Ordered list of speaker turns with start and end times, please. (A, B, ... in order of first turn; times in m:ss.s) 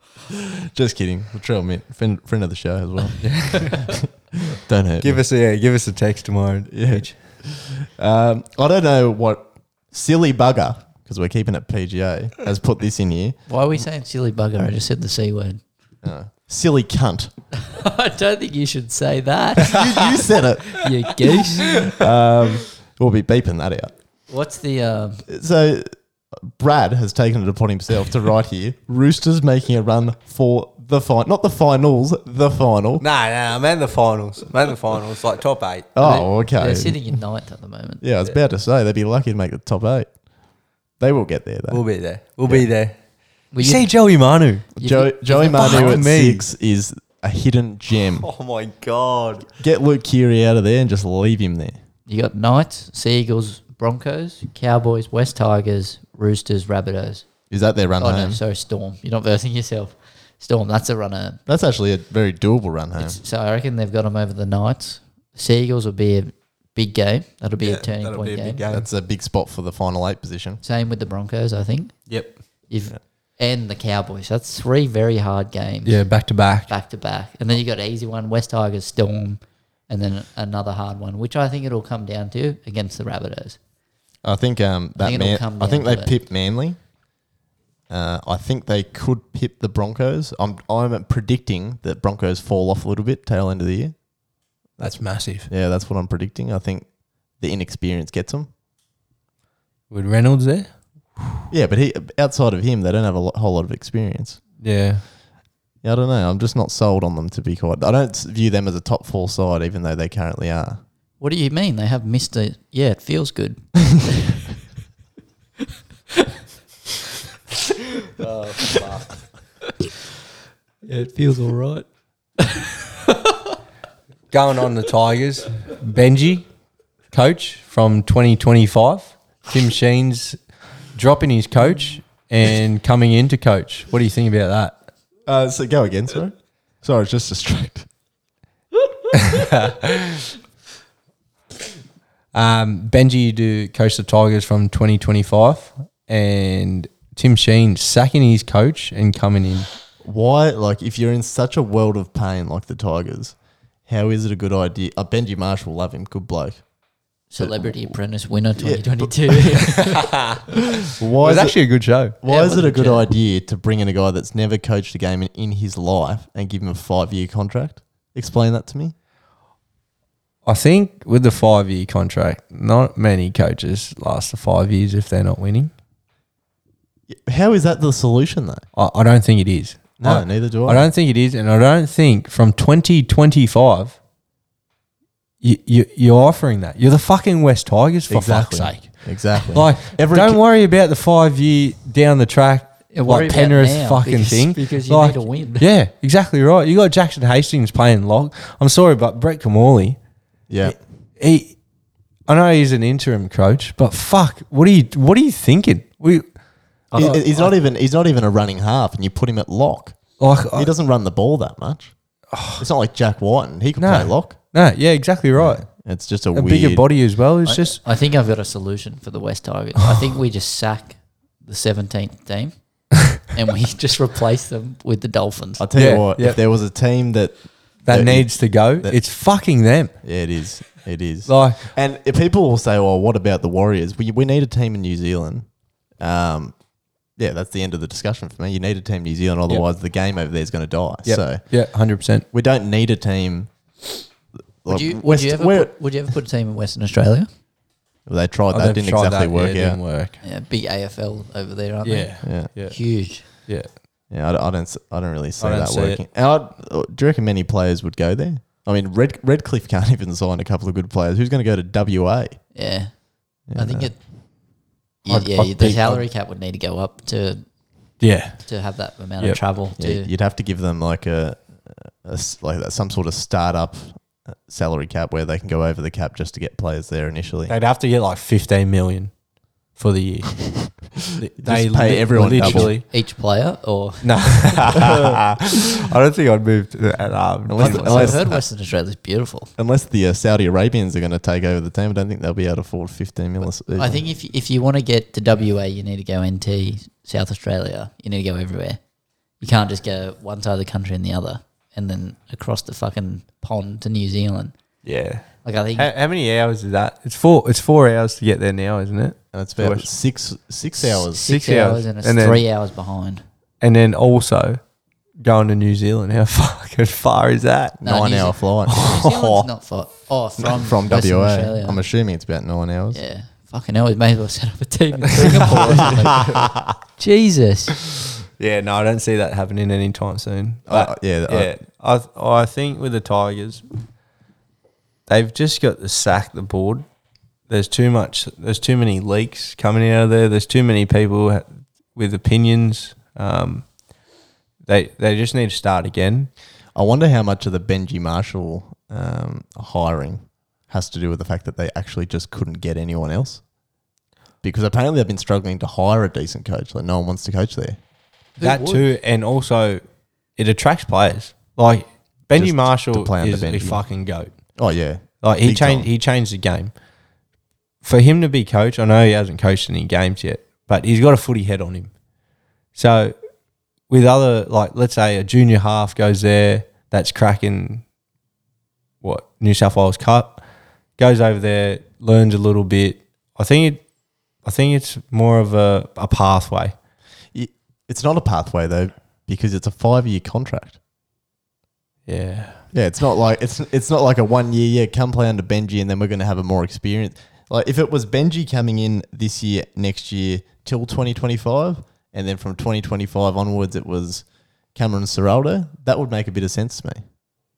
0:00.3-0:05.2 A
0:03.2-0:04.0 B
0:05.0-0:07.1 B
0:06.7-0:13.4 A
0:13.5-0:15.6 C
0:16.0-0:17.3 A
0:17.6-0:20.1 C
0:19.6-0:20.9 A
0:20.7-0:21.9 C
0:21.9-0:24.0 A
0:24.3-0:25.3 C
0:25.3-0:33.0 A
0:33.0-0:35.9 B
0:36.0-0:37.1 A
0:36.0-0:38.0 C
0:38.0-0:40.1 A
0:41.0-0:41.8 A
0:41.7-0:43.0 B
0:43.5-0:43.9 C
0:43.6-0:44.7 B
0:44.8-0:48.3 A
0:44.8-0:46.0 C
0:45.5-0:46.5 B
0:48.2-0:49.5 B
0:49.6-0:51.8 A
0:52.1-0:57.2 C
0:57.5-0:58.4 A
0:58.0-1:01.4 C
1:01.5-1:03.2 A
1:03.0-1:08.6 C
1:07.6-1:08.9 B
1:08.7-1:10.6 A
1:10.6-1:11.9 C
1:12.7-1:16.0 C
1:15.8-1:16.7 B
1:16.7-1:23.6 C
1:24.2-1:26.8 A
1:25.0-1:26.1 C
1:27.9-1:34.0 A
1:34.8-1:36.9 A
1:34.8-1:35.5 B
1:37.4-1:38.5 A
1:39.9-1:41.4 B
1:41.5-1:44.4 A
1:44.6-1:45.0 B
1:45.8-1:50.8 A
1:51.2-1:54.4 C
1:58.2-1:59.1 B
2:00.8-2:01.9 C
2:02.4-2:03.4 C
2:04.3-2:06.5 B
2:07.1-2:10.4 B
2:11.0-2:14.8 B
2:15.3-2:17.9 A
2:19.1-2:20.3 B
2:22.3-2:29.7 B
2:30.0-2:33.4 A
2:33.9-2:36.6 A
2:37.3-2:40.1 C
2:37.4-2:37.7 A
2:38.6-2:39.7 A
2:39.8-2:40.4 B
2:40.8-2:41.6 A
2:41.2-2:42.2 B
2:42.2-2:48.9 A
2:42.3-2:43.1 C
2:50.5-2:55.7 B
2:57.1-2:58.6 A
2:58.8-3:04.0 B
3:00.0-3:00.9 A
3:05.4-3:20.0 B
3:08.1-3:10.4 A
3:12.9-3:15.7 C
3:20.5-3:20.8 A
3:20.6-3:21.6 B
3:22.3-3:26.2 B
3:26.9-3:27.5 B
3:26.9-3:31.9 A
3:30.2-3:30.7 B
3:32.3-3:32.6 B
3:32.6-3:34.4 A
3:33.8-3:35.7 B
3:35.4-3:36.9 A
3:36.3-3:37.8 B
3:37.4-3:45.6 C
3:45.6-3:49.0 A
3:45.8-3:46.4 B
3:47.8-3:50.0 B
3:50.0-3:55.5 A
3:51.3-3:51.7 B
3:56.0-3:56.6 A
3:57.2-4:01.5 A
4:01.0-4:02.2 B
4:02.3-4:03.5 A
4:04.6-4:05.7 A
4:04.7-4:07.3 C
4:08.1-4:09.8 A
4:08.5-4:10.2 B
4:10.2-4:13.3 C
4:11.8-4:13.7 B
4:12.2-4:12.5 A
4:14.1-4:22.4 A
4:15.4-4:16.0 B
4:22.5-4:22.9 C
4:23.5-4:23.9 A
4:23.5-4:24.0 C
4:25.0-4:27.4 C
4:25.1-4:26.0 B
4:28.0-4:28.4 B
4:28.4-4:30.1 C
4:29.8-4:37.5 A
4:37.5-4:39.1 B
4:39.8-4:42.9 B
4:41.4-4:42.8 A
4:42.4-4:44.7 C
4:44.0-4:48.2 B
4:44.9-4:45.1 A
4:47.5-4:48.4 A
4:47.6-4:49.5 C
4:49.6-4:54.0 A
4:53.7-4:58.8 C
4:59.4-5:04.6 C
5:04.8-5:05.2 B
5:05.4-5:05.9 C
5:05.8-5:09.9 B
5:09.3-5:11.3 A
5:10.8-5:13.2 C
5:11.2-5:12.4 B
5:13.6-5:14.6 B
5:15.2-5:17.8 B
5:17.8-5:18.8 A
5:17.8-5:21.8 C
5:18.7-5:19.5 B
5:20.4-5:23.0 A
5:22.9-5:27.7 C
5:25.3-5:26.8 B
5:25.5-5:26.0 A
5:27.8-5:33.6 B
5:30.7-5:31.5 A
5:35.1-5:36.8 B
5:37.5-5:43.7 B
5:44.7-5:46.3 B
5:46.8-5:53.4 A
5:54.4-5:57.8 A
5:58.4-5:58.8 C
5:58.4-5:59.8 B
6:00.4-6:04.3 B
6:02.4-6:03.8 A
6:04.6-6:05.9 A
6:05.2-6:06.7 B
6:07.8-6:11.9 B
6:12.8-6:13.1 B
6:13.9-6:17.8 B
6:19.0-6:20.4 B
6:21.0-6:23.8 B
6:24.4-6:26.8 B
6:27.3-6:30.8 A
6:32.1-6:32.6 B
6:32.7-6:47.0 A